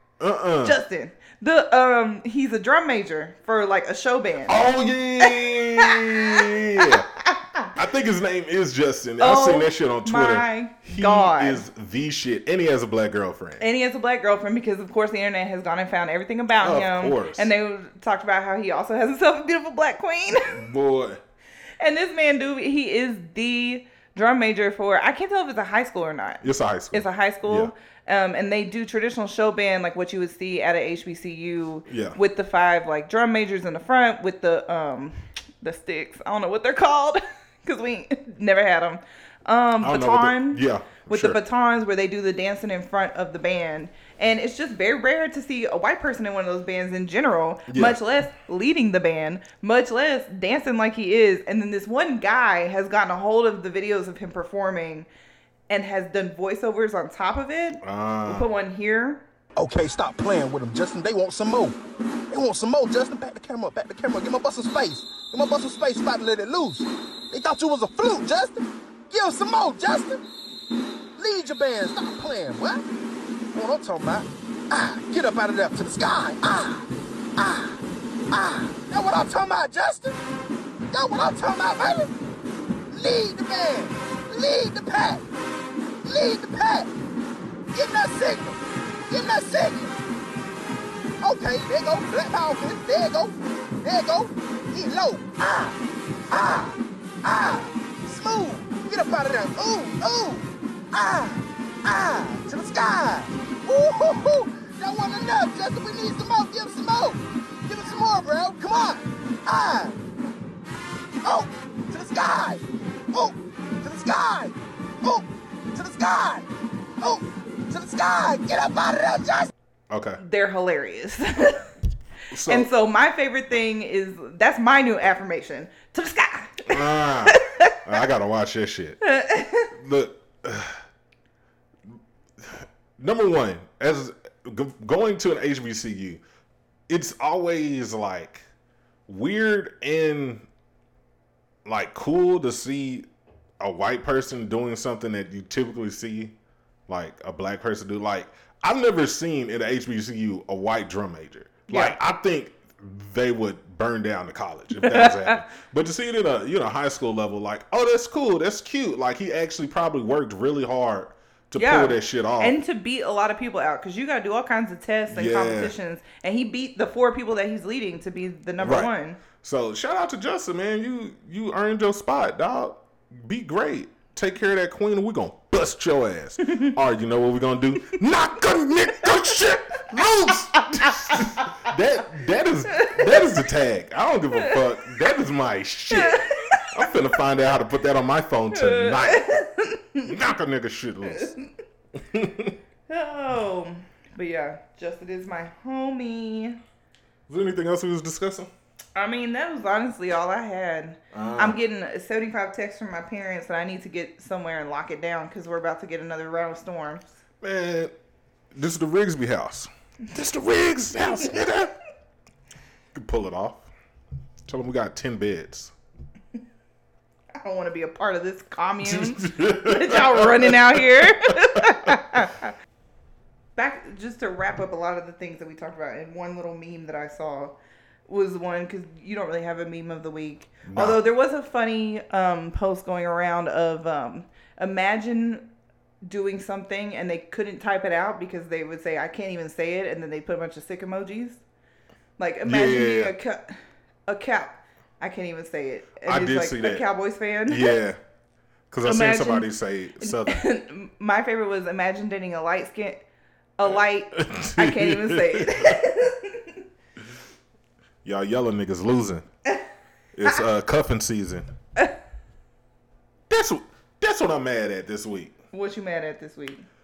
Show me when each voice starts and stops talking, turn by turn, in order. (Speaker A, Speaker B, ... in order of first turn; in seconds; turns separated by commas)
Speaker A: 0.2-0.8, Speaker B: 0.6-4.6, Speaker A: 4.5-7.1, Speaker B: 5.2-7.7, Speaker A: 7.7-13.6, Speaker B: 9.2-11.6, Speaker B: 13.6-20.6, Speaker A: 16.6-17.5, Speaker A: 20.4-21.2, Speaker B: 21.8-55.1, Speaker A: 26.4-27.7, Speaker A: 31.9-32.2, Speaker A: 39.8-41.4, Speaker A: 47.7-48.0, Speaker B: 55.7-59.2, Speaker A: 57.8-58.5, Speaker C: 59.6-61.8, Speaker C: 62.3-70.2, Speaker C: 71.2-72.8, Speaker C: 73.5-77.8, Speaker C: 78.3-80.2, Speaker C: 80.9-82.1, Speaker C: 82.9-85.2, Speaker C: 86.0-86.9, Speaker C: 87.7-90.0, Speaker C: 91.2-95.8, Speaker C: 96.3-110.0, Speaker C: 111.2-116.5, Speaker C: 117.0-119.5, Speaker A: 119.9-120.2, Speaker B: 120.2-121.7, Speaker A: 122.3-122.7, Speaker B: 122.5-127.8, Speaker A: 126.7-129.0, Speaker B: 129.0-129.7, Speaker A: 129.7-130.8, Speaker A: 132.4-136.2, Speaker A: 136.9-138.5, Speaker A: 139.1-140.5, Speaker A: 141.6-143.1, Speaker A: 143.6-146.3, Speaker A: 146.9-162.5, Speaker B: 151.7-152.0, Speaker B: 154.8-155.4, Speaker B: 161.6-169.2, Speaker A: 165.1-165.7, Speaker A: 168.6-168.9, Speaker A: 169.4-189.3, Speaker B: 180.6-181.5, Speaker B: 182.9-183.1, Speaker B: 185.9-186.6, Speaker B: 188.5-190.1, Speaker A: 190.0-191.3, Speaker A: 192.0-192.6, Speaker B: 192.9-196.6, Speaker A: 197.3-198.5, Speaker B: 198.9-207.0, Speaker A: 201.1-201.6, Speaker A: 207.4-207.9, Speaker A: 208.5-211.7, Speaker A: 212.9-213.7, Speaker A: 214.4-215.7, Speaker B: 217.4-222.5, Speaker A: 218.8-221.9, Speaker B: 223.6-227.6, Speaker B: 228.1-235.5, Speaker A: 230.7-231.0, Speaker B: 236.1-241.4, Speaker B: 242.2-247.8, Speaker A: 242.4-243.1, Speaker A: 246.1-246.8, Speaker A: 247.5-248.0, Speaker A: 248.7-250.4, Speaker B: 248.8-253.0, Speaker B: 253.6-256.6, Speaker A: 254.1-255.7, Speaker A: 258.0-259.3, Speaker A: 260.1-261.5, Speaker A: 263.3-265.4, Speaker B: 265.5-266.6